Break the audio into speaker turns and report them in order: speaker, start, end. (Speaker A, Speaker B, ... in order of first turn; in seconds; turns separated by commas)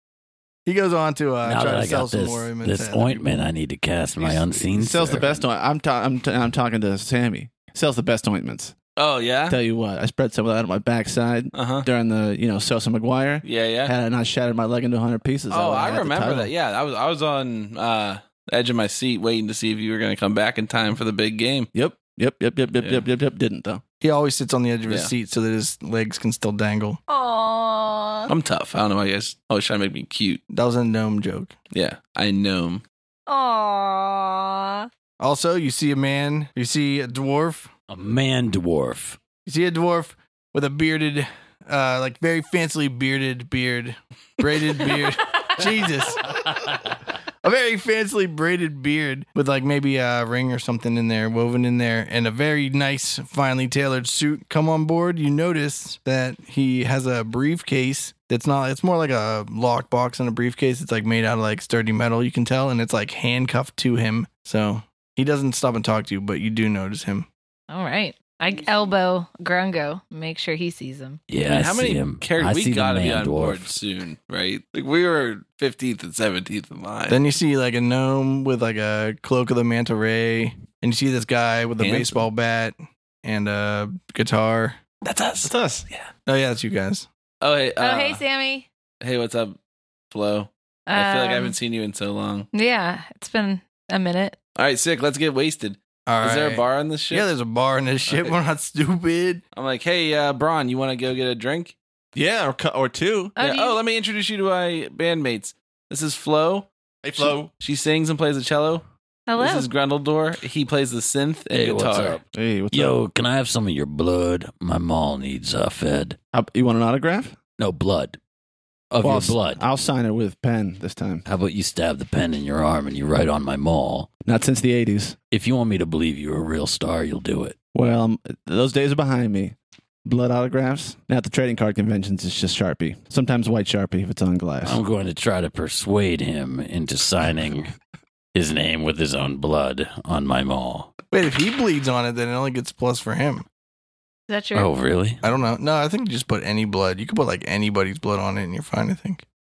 Speaker A: 0.7-3.2, Speaker B: 1.4-5.4, Speaker C: 4.2-8.7, Speaker D: 9.0-9.6, Speaker C: 9.5-16.5, Speaker D: 11.5-11.9, Speaker D: 13.4-13.9, Speaker D: 15.5-21.7, Speaker C: 21.7-23.8, Speaker D: 22.8-23.0, Speaker A: 24.0-27.0, Speaker E: 27.1-28.3, Speaker D: 28.3-30.4, Speaker A: 30.5-31.5, Speaker D: 31.7-32.8, Speaker E: 33.3-34.9, Speaker A: 35.2-37.7, Speaker B: 37.9-39.2, Speaker A: 39.4-46.4, Speaker A: 47.4-67.3, Speaker E: 67.7-71.2, Speaker B: 71.3-73.7, Speaker D: 71.5-77.2, Speaker A: 77.1-84.8, Speaker D: 81.8-82.2, Speaker D: 85.0-86.1, Speaker C: 85.4-85.8, Speaker A: 86.3-87.1, Speaker D: 87.4-88.2, Speaker E: 87.8-88.7, Speaker D: 89.0-89.6, Speaker D: 90.1-92.5, Speaker E: 90.9-91.5, Speaker E: 92.5-94.4, Speaker D: 94.5-97.3, Speaker A: 96.0-99.4, Speaker D: 98.1-98.3, Speaker D: 99.5-101.7, Speaker C: 102.1-103.3, Speaker E: 103.3-103.8, Speaker D: 103.4-108.8, Speaker C: 107.0-107.5, Speaker E: 109.3-109.7, Speaker D: 109.4-112.2, Speaker B: 111.5-116.2, Speaker C: 112.3-113.0, Speaker C: 116.3-117.4, Speaker B: 117.6-118.2, Speaker B: 118.9-119.6, Speaker C: 119.0-121.2, Speaker B: 121.2-124.1, Speaker C: 124.2-125.2, Speaker B: 125.3-127.5, Speaker C: 127.7-134.8, Speaker B: 134.6-137.7, Speaker B: 138.3-140.9, Speaker A: 141.1-143.4, Speaker E: 144.3-144.7, Speaker B: 144.5-145.2, Speaker A: 145.2-149.2